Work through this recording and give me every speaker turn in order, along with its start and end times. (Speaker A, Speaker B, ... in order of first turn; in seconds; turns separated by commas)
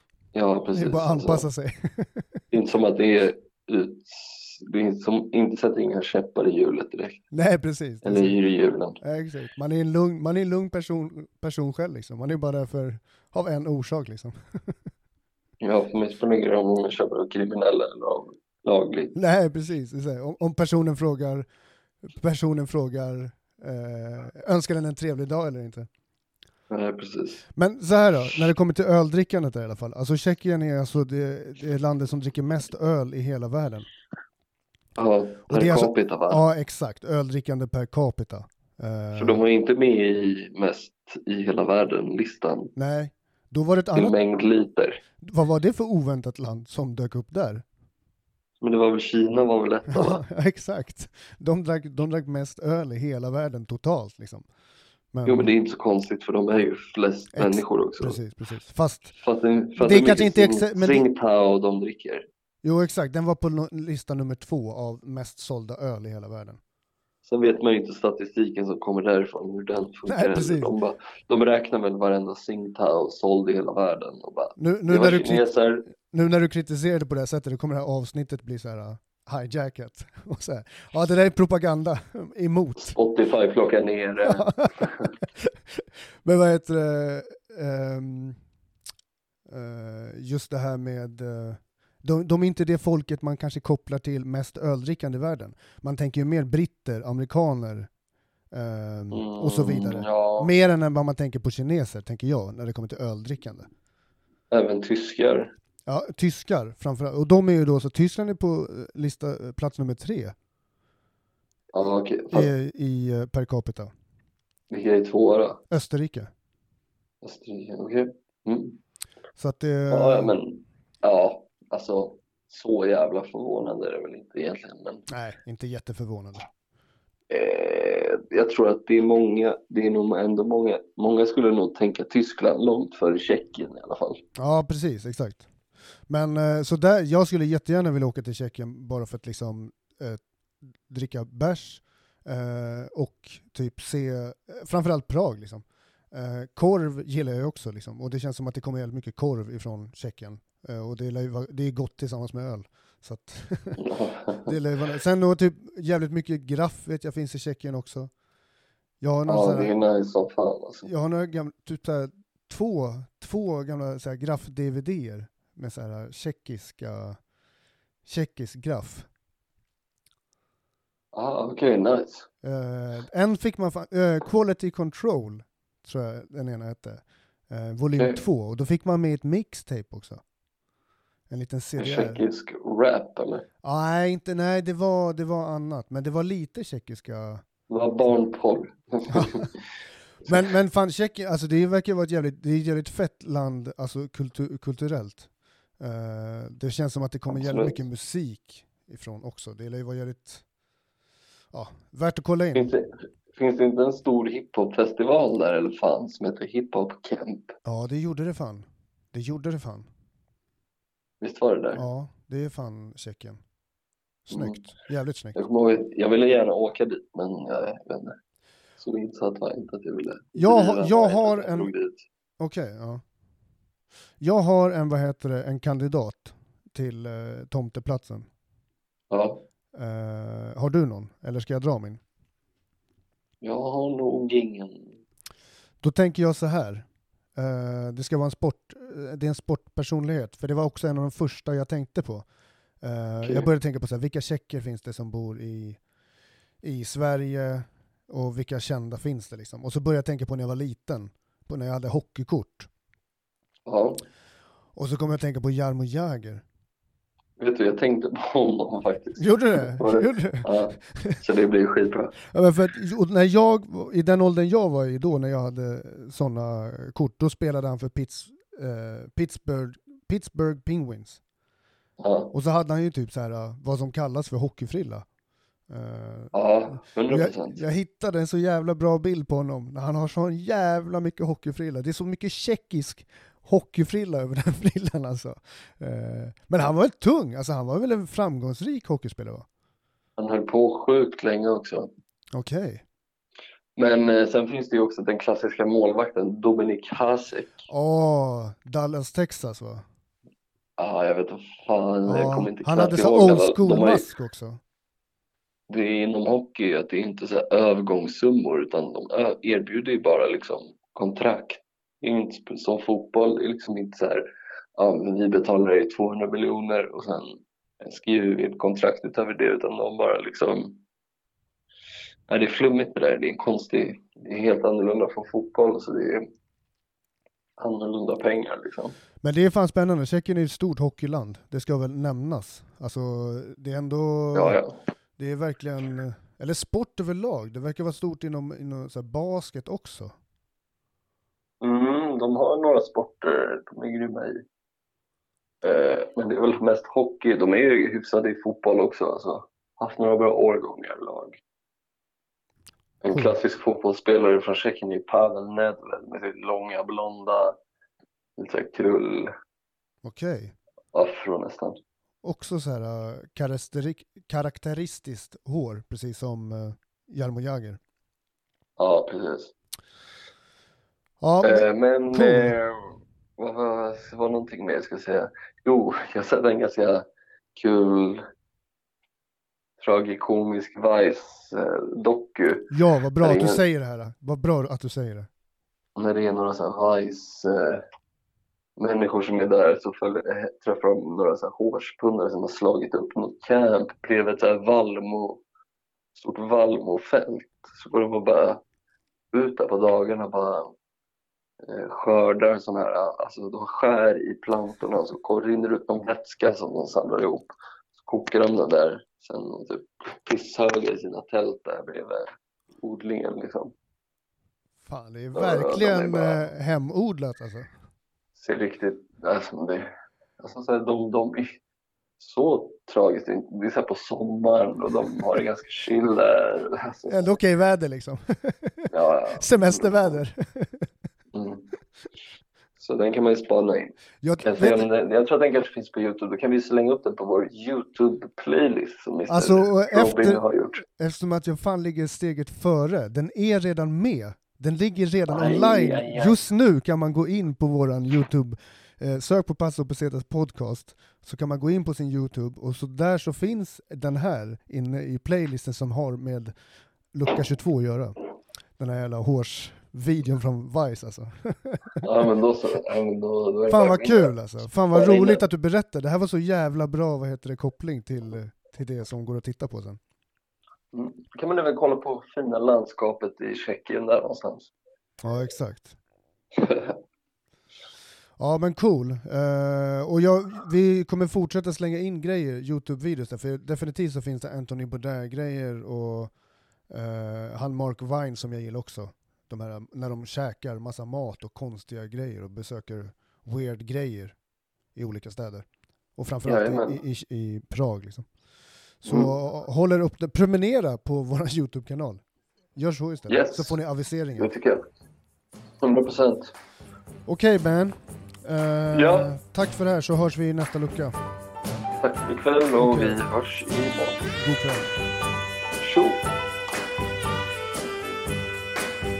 Speaker A: 0.3-1.5, Speaker B: 0.7-2.4, Speaker A: 2.5-7.2, Speaker B: 7.3-8.4, Speaker A: 8.0-9.0, Speaker B: 9.0-14.8, Speaker A: 15.6-19.1, Speaker B: 19.1-21.5, Speaker B: 22.1-25.9, Speaker A: 26.7-27.4, Speaker B: 27.6-33.9, Speaker A: 35.0-36.4, Speaker B: 35.5-39.4, Speaker A: 39.1-42.7, Speaker B: 42.8-44.2, Speaker A: 44.0-45.0, Speaker B: 45.2-47.6, Speaker A: 48.6-50.2, Speaker B: 49.9-54.5, Speaker B: 55.1-55.5, Speaker A: 55.2-58.2, Speaker B: 57.3-59.1, Speaker A: 59.1-62.2, Speaker B: 59.8-61.1, Speaker B: 62.6-66.6, Speaker A: 67.2-75.8, Speaker B: 70.1-70.7, Speaker B: 74.6-75.5, Speaker B: 76.1-83.0, Speaker A: 82.8-85.1, Speaker B: 84.2-88.4, Speaker B: 89.5-97.9, Speaker B: 98.5-103.7, Speaker A: 99.1-100.5, Speaker A: 104.5-105.5, Speaker B: 105.9-110.3, Speaker A: 111.7-112.5, Speaker B: 112.3-113.9, Speaker A: 114.7-115.6, Speaker B: 115.7-116.3, Speaker A: 117.2-118.8, Speaker B: 119.4-120.4, Speaker A: 119.9-125.1, Speaker B: 125.1-126.5, Speaker A: 127.3-134.2, Speaker B: 134.4-135.5, Speaker B: 136.1-140.2, Speaker B: 140.9-153.8, Speaker A: 153.8-154.5, Speaker B: 154.4-158.1, Speaker B: 159.0-159.7, Speaker A: 159.3-160.9, Speaker B: 160.8-167.2, Speaker B: 168.1-169.1, Speaker A: 171.1-172.3, Speaker B: 172.4-180.2, Speaker A: 178.0-178.2, Speaker B: 181.3-182.2, Speaker A: 181.8-183.4, Speaker B: 183.6-187.4, Speaker A: 187.7-189.6, Speaker B: 189.1-189.4, Speaker B: 190.2-195.3, Speaker B: 195.8-200.4, Speaker A: 197.3-197.8, Speaker B: 201.5-202.7, Speaker A: 202.6-207.5, Speaker B: 207.7-209.9, Speaker A: 211.2-211.8, Speaker B: 211.8-213.4, Speaker B: 214.3-215.4, Speaker A: 214.3-214.6, Speaker A: 215.4-218.2, Speaker A: 218.8-222.1, Speaker B: 220.4-221.7, Speaker B: 222.4-223.0, Speaker B: 224.2-228.3, Speaker A: 229.1-229.4, Speaker B: 229.7-232.0, Speaker A: 233.4-235.0, Speaker B: 235.8-242.3, Speaker B: 242.8-245.8, Speaker A: 243.2-243.5, Speaker B: 246.6-252.7, Speaker A: 253.7-254.0, Speaker B: 254.8-256.4, Speaker A: 257.4-262.1, Speaker B: 259.2-261.2, Speaker B: 262.3-271.2, Speaker A: 272.0-272.3, Speaker B: 272.3-275.1, Speaker B: 275.7-276.4, Speaker A: 276.3-277.6, Speaker B: 277.1-289.5, Speaker A: 290.2-291.9, Speaker B: 292.3-292.8, Speaker A: 293.8-297.7, Speaker B: 297.7-299.8, Speaker A: 300.8-304.1, Speaker B: 302.1-304.6, Speaker A: 305.7-314.2, Speaker A: 314.8-320.8, Speaker A: 322.3-326.2, Speaker A: 327.6-328.9, Speaker B: 329.2-334.6, Speaker A: 334.3-334.7, Speaker B: 335.2-340.1, Speaker A: 341.6-344.4, Speaker A: 345.6-351.4, Speaker A: 353.0-357.6, Speaker B: 353.1-353.4, Speaker A: 358.4-359.3, Speaker B: 360.0-360.5, Speaker A: 360.9-361.8, Speaker B: 362.2-367.8, Speaker A: 368.8-369.5, Speaker B: 371.2-372.6, Speaker A: 371.4-378.2, Speaker A: 379.8-383.6, Speaker B: 382.7-385.3, Speaker A: 386.0-387.8, Speaker A: 388.8-395.4, Speaker A: 396.1-398.6, Speaker A: 399.3-400.7, Speaker A: 401.6-412.3, Speaker A: 412.8-413.7, Speaker B: 414.9-417.7, Speaker A: 415.3-416.4, Speaker A: 418.4-419.9, Speaker A: 420.4-421.6, Speaker A: 422.2-427.3, Speaker B: 427.1-430.9, Speaker A: 428.9-430.2, Speaker A: 431.3-431.7, Speaker A: 432.8-440.8, Speaker B: 434.2-434.9, Speaker B: 439.3-440.4, Speaker B: 441.0-456.5, Speaker A: 445.3-446.4, Speaker B: 457.1-458.2, Speaker B: 458.8-462.1, Speaker A: 462.0-465.4, Speaker B: 463.7-470.0, Speaker A: 470.9-474.7, Speaker B: 475.2-476.0, Speaker A: 476.6-477.0, Speaker B: 478.4-486.3, Speaker B: 486.9-494.4, Speaker B: 494.9-495.6, Speaker B: 496.2-498.3, Speaker A: 496.4-497.0, Speaker B: 499.0-502.2, Speaker A: 499.1-499.3, Speaker B: 502.8-504.5, Speaker A: 503.3-503.8, Speaker A: 504.4-504.8, Speaker A: 505.8-506.5, Speaker B: 507.3-511.1, Speaker A: 508.9-509.3, Speaker A: 512.0-514.2, Speaker B: 512.8-513.2, Speaker B: 514.4-515.0, Speaker A: 515.8-516.2